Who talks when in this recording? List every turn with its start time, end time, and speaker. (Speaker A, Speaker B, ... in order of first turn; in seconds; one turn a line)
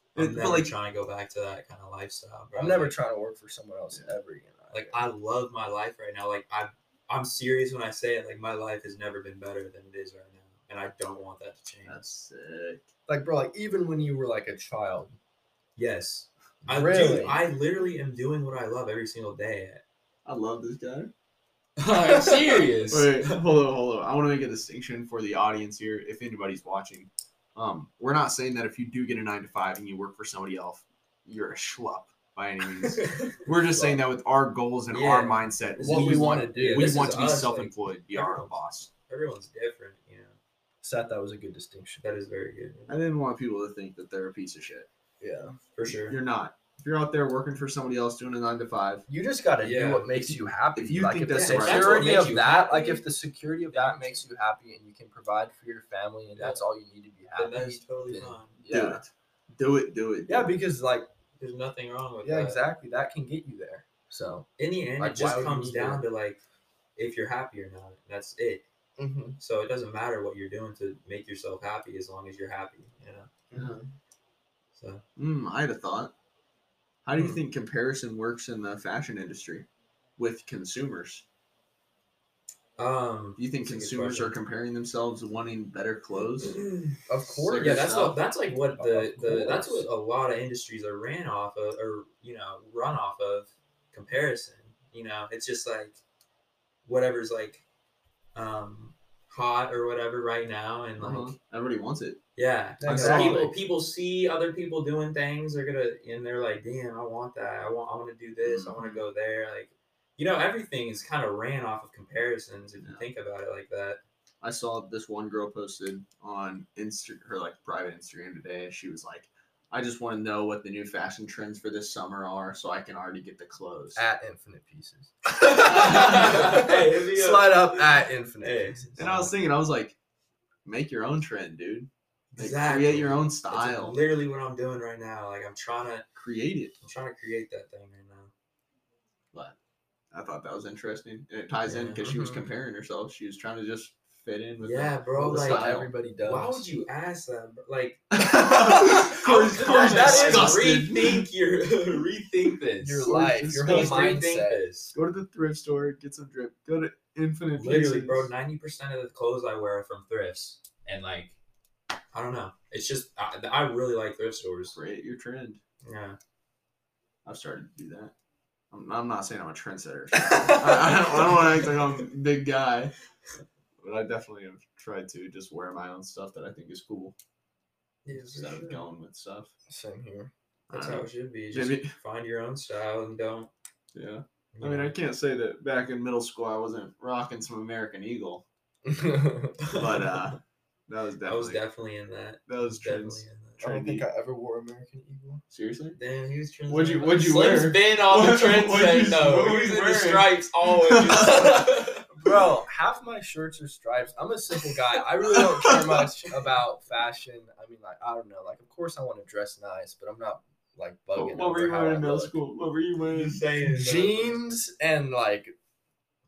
Speaker A: 0.1-0.7
Speaker B: 0.2-3.0
Speaker C: 2.5-5.1
Speaker B: 4.7-12.0
Speaker A: 11.8-12.9
Speaker C: 13.1-15.2
Speaker B: 15.8-19.8
Speaker C: 16.7-17.4
Speaker A: 20.2-21.1
Speaker B: 21.8-23.4
Speaker C: 22.2-22.6
Speaker A: 22.9-38.9
Speaker B: 32.8-33.3
Speaker C: 33.7-34.0
Speaker B: 34.9-40.4
Speaker C: 35.8-37.1
Speaker C: 40.8-42.0
Speaker B: 42.0-43.0
Speaker A: 42.9-44.9
Speaker C: 45.2-45.6
Speaker B: 45.8-46.2
Speaker A: 45.9-49.1
Speaker C: 49.1-59.0
Speaker B: 49.6-50.4
Speaker A: 50.7-52.3
Speaker B: 51.3-53.1
Speaker B: 53.7-54.2
Speaker B: 56.4-56.6
Speaker B: 57.4-58.6
Speaker A: 58.7-60.6
Speaker C: 60.3-61.1
Speaker B: 61.4-62.6
Speaker C: 62.2-64.5
Speaker B: 64.6-66.4
Speaker C: 65.0-66.0
Speaker B: 67.0-68.6
Speaker C: 69.0-69.4
Speaker B: 69.4-73.3
Speaker C: 73.5-73.9
Speaker A: 73.5-73.8
Speaker B: 74.8-75.0
Speaker A: 75.2-76.1
Speaker A: 77.0-81.2
Speaker B: 77.1-77.4
Speaker B: 82.8-84.4
Speaker A: 83.4-86.6
Speaker B: 86.1-87.0
Speaker C: 87.1-87.9
Speaker A: 87.4-88.2
Speaker B: 87.5-96.0
Speaker C: 88.7-89.9
Speaker B: 96.8-97.6
Speaker B: 98.3-101.4
Speaker A: 101.0-102.2
Speaker B: 102.4-114.0
Speaker C: 102.8-103.5
Speaker A: 102.8-103.5
Speaker A: 108.4-109.0
Speaker A: 112.8-113.0
Speaker A: 114.4-124.0
Speaker C: 124.0-129.3
Speaker B: 125.3-129.2
Speaker A: 129.0-130.0
Speaker A: 130.7-134.0
Speaker B: 132.3-136.1
Speaker A: 136.2-136.8
Speaker B: 136.8-138.3
Speaker A: 140.1-145.9
Speaker B: 141.7-142.1
Speaker C: 142.0-142.5
Speaker B: 144.6-154.9
Speaker C: 145.2-146.7
Speaker A: 148.2-151.3
Speaker C: 148.6-150.6
Speaker C: 152.8-154.6
Speaker A: 153.0-154.2
Speaker A: 154.9-158.3
Speaker B: 157.6-161.3
Speaker B: 162.1-164.8
Speaker A: 164.7-165.6
Speaker B: 165.8-166.2
Speaker A: 167.2-168.1
Speaker A: 168.7-172.9
Speaker C: 170.2-171.4
Speaker B: 171.6-172.1
Speaker A: 173.8-177.2
Speaker B: 178.1-178.8
Speaker A: 178.1-179.5
Speaker C: 179.7-180.3
Speaker B: 180.7-183.5
Speaker A: 180.7-181.9
Speaker A: 183.9-188.5
Speaker B: 184.5-185.0
Speaker C: 188.9-189.5
Speaker B: 189.7-190.4
Speaker A: 189.8-191.6
Speaker B: 191.2-193.7
Speaker A: 192.5-194.1
Speaker C: 193.6-195.4
Speaker A: 195.5-196.0
Speaker B: 195.9-202.0
Speaker A: 196.7-201.4
Speaker C: 201.2-212.4
Speaker A: 205.4-206.0
Speaker A: 211.1-213.4
Speaker B: 213.0-214.4
Speaker C: 213.6-215.5